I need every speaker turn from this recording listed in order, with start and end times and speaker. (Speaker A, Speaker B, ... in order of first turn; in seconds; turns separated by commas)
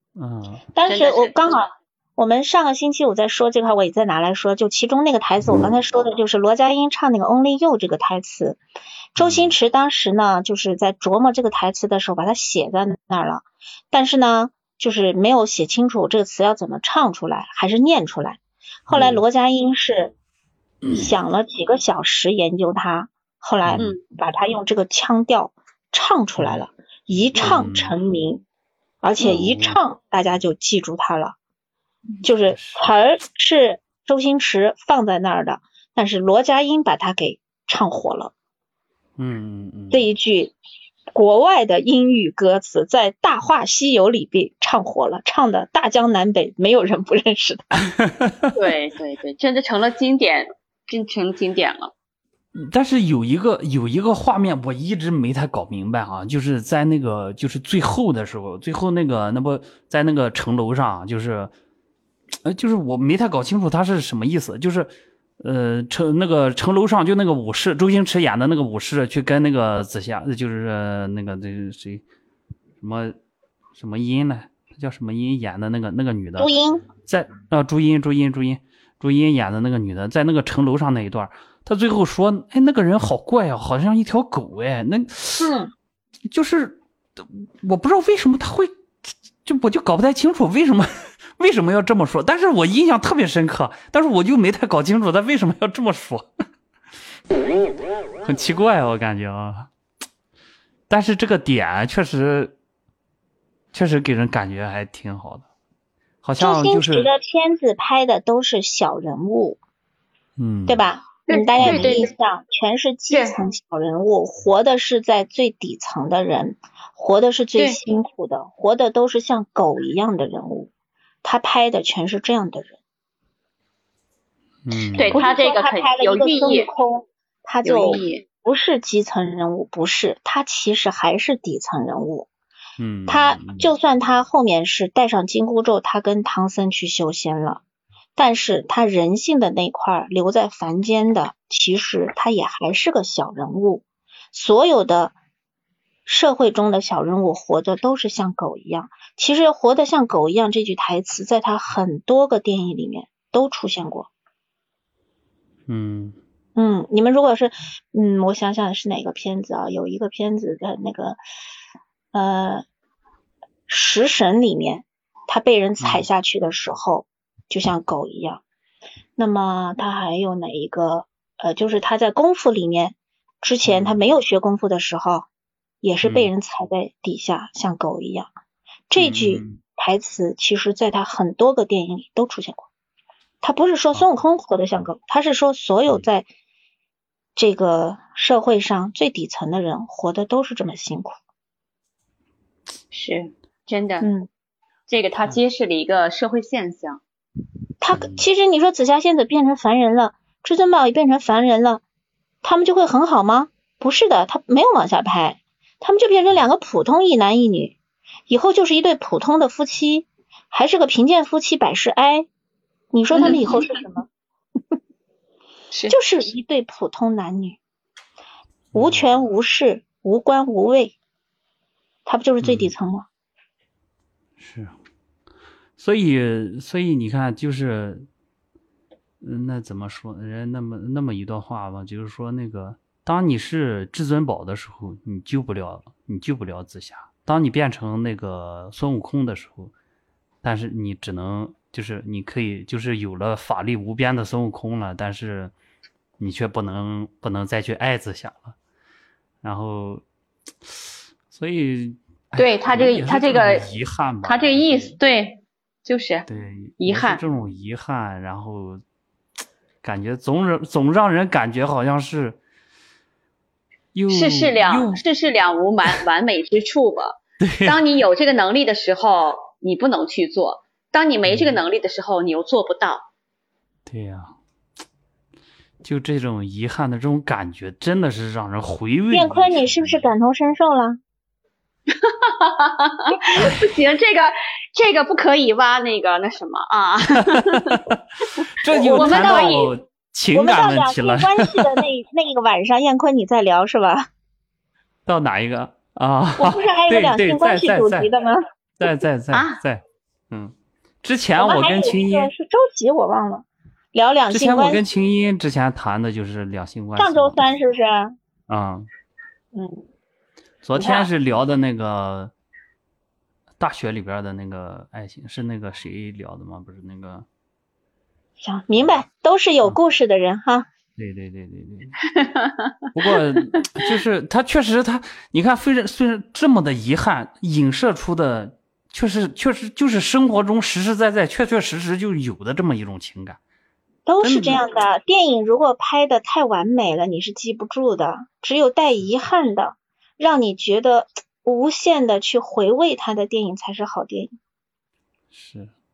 Speaker A: 0.2-0.7, Speaker B: 0.8-8.6, Speaker C: 0.8-1.3, Speaker B: 9.2-20.1, Speaker A: 9.2-9.5, Speaker A: 18.9-19.2, Speaker A: 20.8-21.1, Speaker B: 20.9-28.4, Speaker A: 23.6-23.9, Speaker A: 26.4-26.7, Speaker A: 27.3-28.0, Speaker B: 29.0-31.4, Speaker A: 29.2-29.8, Speaker B: 32.2-38.3, Speaker A: 32.5-32.8, Speaker A: 39.2-40.1, Speaker B: 39.9-40.5, Speaker B: 41.1-47.9, Speaker C: 48.5-51.9, Speaker A: 52.5-61.5, Speaker A: 62.4-72.0, Speaker A: 72.8-73.2, Speaker A: 73.8-76.5, Speaker B: 76.4-76.8, Speaker A: 77.0-85.5, Speaker B: 85.4-85.7, Speaker A: 86.3-88.7, Speaker A: 89.4-96.3, Speaker A: 98.2-99.7, Speaker A: 100.9-102.5, Speaker A: 103.7-105.5, Speaker A: 106.2-107.1, Speaker B: 106.4-109.6, Speaker A: 110.4-110.9, Speaker B: 110.7-120.7, Speaker C: 111.3-112.1, Speaker A: 111.6-112.0, Speaker C: 113.1-113.3, Speaker B: 121.2-122.8, Speaker A: 124.7-125.2, Speaker C: 125.0-126.7, Speaker B: 125.1-132.3, Speaker C: 127.6-128.2, Speaker A: 132.8-133.7, Speaker B: 133.1-137.6, Speaker B: 138.2-145.2, Speaker B: 146.1-154.1, Speaker A: 155.7-156.2, Speaker B: 156.6-161.2, Speaker B: 162.1-162.6, Speaker B: 163.7-168.4, Speaker A: 165.8-166.1, Speaker B: 169.2-175.3, Speaker A: 173.6-174.1, Speaker B: 175.8-178.3, Speaker A: 176.0-176.3, Speaker B: 178.9-182.7, Speaker A: 179.0-179.6, Speaker B: 183.4-186.3, Speaker B: 187.3-191.2, Speaker C: 192.9-194.1, Speaker B: 194.0-194.3, Speaker C: 194.9-197.0, Speaker B: 197.8-201.8, Speaker A: 197.9-198.3, Speaker B: 202.4-207.8, Speaker B: 208.3-212.3, Speaker B: 212.9-214.1, Speaker C: 213.2-213.7, Speaker C: 215.7-216.0, Speaker B: 215.9-217.6, Speaker A: 218.7-219.3, Speaker B: 218.7-220.9, Speaker B: 222.1-223.1, Speaker A: 222.4-222.7, Speaker A: 224.4-224.7, Speaker A: 225.8-228.1, Speaker A: 229.2-239.7, Speaker A: 240.4-245.5, Speaker A: 246.2-248.5, Speaker A: 249.4-250.0, Speaker A: 251.3-254.9, Speaker C: 252.3-253.7, Speaker C: 254.2-256.2, Speaker A: 256.3-258.8, Speaker C: 256.8-257.2, Speaker A: 259.8-262.4, Speaker A: 263.9-265.0, Speaker C: 264.1-273.1, Speaker A: 267.4-267.8, Speaker A: 271.2-271.6, Speaker A: 273.9-274.3, Speaker A: 275.8-280.1, Speaker B: 279.1-281.0, Speaker C: 282.0-287.6, Speaker A: 287.7-288.0, Speaker A: 288.6-291.8, Speaker C: 288.7-289.7, Speaker B: 288.7-289.7, Speaker B: 290.3-294.1, Speaker A: 295.1-298.1, Speaker B: 296.4-298.4, Speaker A: 298.8-302.3, Speaker C: 299.3-299.6, Speaker B: 301.4-304.8, Speaker A: 304.3-307.5, Speaker B: 307.0-308.1, Speaker A: 308.5-308.9, Speaker B: 309.5-309.8, Speaker A: 310.6-312.3, Speaker B: 310.7-311.1, Speaker A: 313.6-317.2, Speaker B: 318.4-320.6, Speaker A: 318.8-319.0, Speaker A: 321.0-322.0, Speaker C: 322.2-322.6, Speaker A: 322.9-333.4, Speaker B: 334.1-344.3, Speaker A: 334.2-334.6, Speaker A: 345.3-345.7